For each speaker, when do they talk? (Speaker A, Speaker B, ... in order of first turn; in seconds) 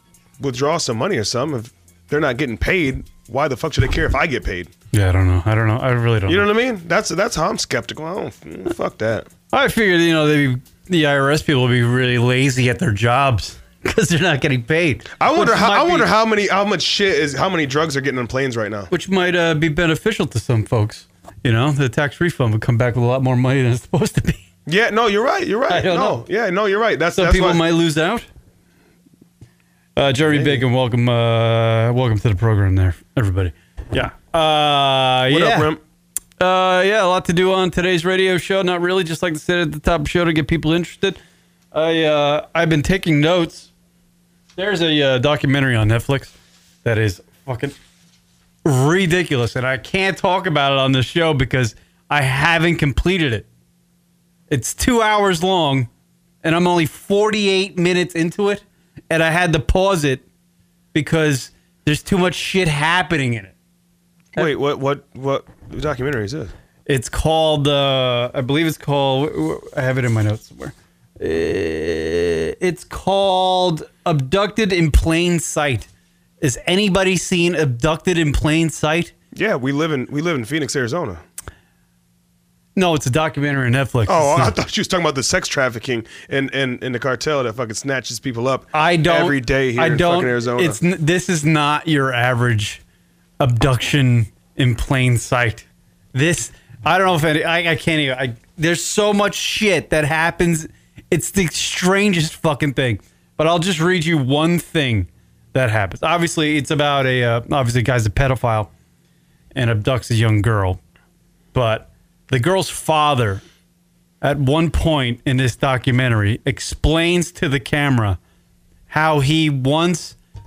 Speaker A: 0.4-4.7, 6.3-9.3, 15.2-18.9, 24.7-27.6, 30.3-30.6, 35.3-35.8, 64.3-66.5, 79.3-81.2, 84.1-90.8
Speaker B: 4.9-6.5, 9.5-16.1, 18.9-24.4, 25.7-26.2, 27.1-28.2, 29.9-35.7, 36.4-41.2, 41.7-43.7, 44.5-46.3, 46.8-47.8, 48.6-53.5, 54.5-55.9, 56.4-60.2, 60.9-63.5, 66.9-75.9, 76.4-79.1, 82.7-84.5, 88.7-92.8, 93.4-108.7, 109.5-110.8, 111.5-113.4, 114.2-118.2, 118.9-120.2